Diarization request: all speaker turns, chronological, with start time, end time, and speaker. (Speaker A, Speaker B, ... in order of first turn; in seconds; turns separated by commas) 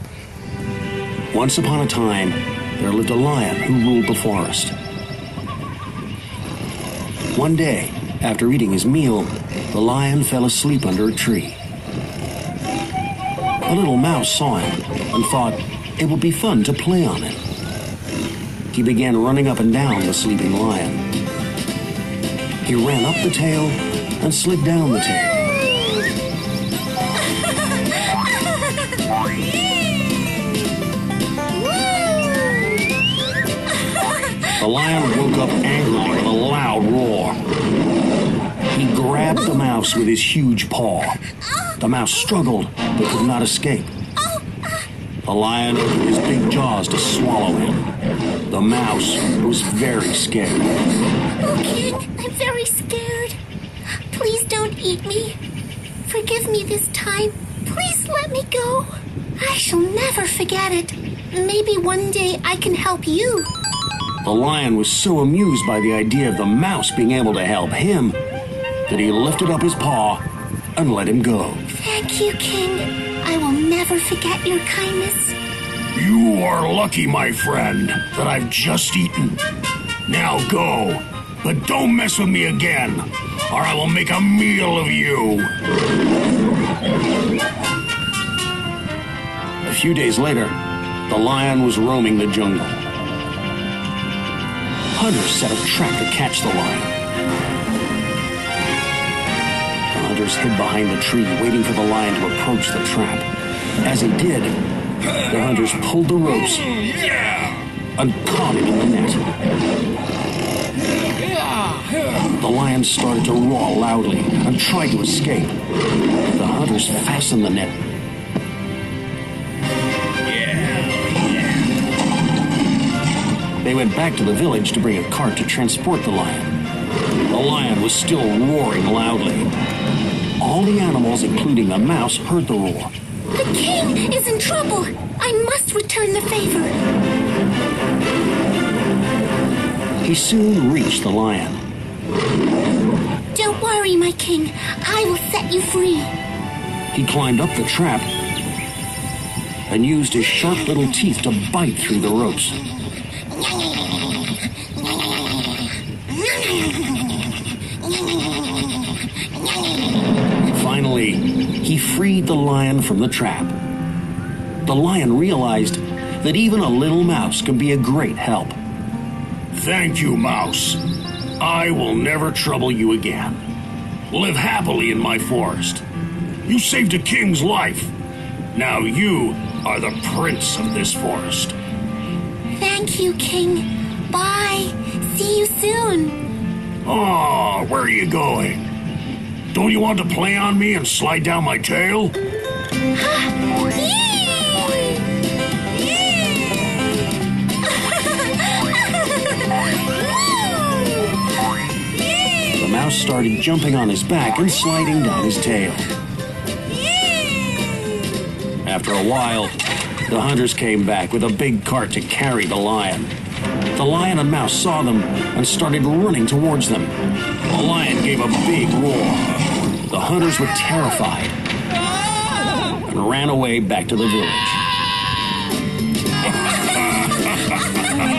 Speaker A: 1.3-4.8, Speaker A: 7.3-11.6, Speaker A: 13.7-17.4, Speaker A: 18.7-21.1, Speaker A: 22.6-25.5, Speaker A: 34.6-37.4, Speaker A: 38.7-41.2, Speaker A: 41.8-43.9, Speaker B: 44.2-44.9, Speaker A: 45.2-47.9, Speaker A: 48.5-50.7, Speaker B: 51.4-53.4, Speaker B: 54.1-55.4, Speaker B: 56.1-63.5, Speaker A: 64.2-68.2, Speaker A: 68.9-70.2, Speaker A: 70.8-71.6, Speaker B: 71.7-75.4, Speaker A: 75.9-79.4, Speaker A: 80.1-85.5, Speaker A: 89.6-92.8, Speaker A: 95.0-96.9, Speaker A: 99.9-103.3, Speaker A: 103.8-104.6, Speaker A: 105.1-109.3, Speaker A: 112.2-115.6, Speaker A: 116.3-117.8, Speaker A: 123.6-126.6, Speaker A: 127.3-129.5, Speaker A: 130.4-132.9, Speaker B: 133.3-136.8, Speaker A: 140.0-141.6, Speaker B: 143.3-146.1, Speaker A: 146.9-148.1, Speaker A: 149.7-152.6, Speaker A: 160.5-163.6, Speaker A: 164.6-168.6, Speaker A: 169.5-170.8, Speaker A: 171.4-173.4, Speaker A: 174.1-175.8, Speaker A: 176.4-177.9, Speaker A: 178.5-181.6, Speaker B: 182.6-186.2, Speaker A: 186.8-188.7, Speaker A: 189.5-192.2, Speaker B: 193.0-194.6, Speaker A: 202.5-205.9, Speaker A: 208.6-213.1, Speaker A: 213.7-221.4, Speaker A: 222.8-224.6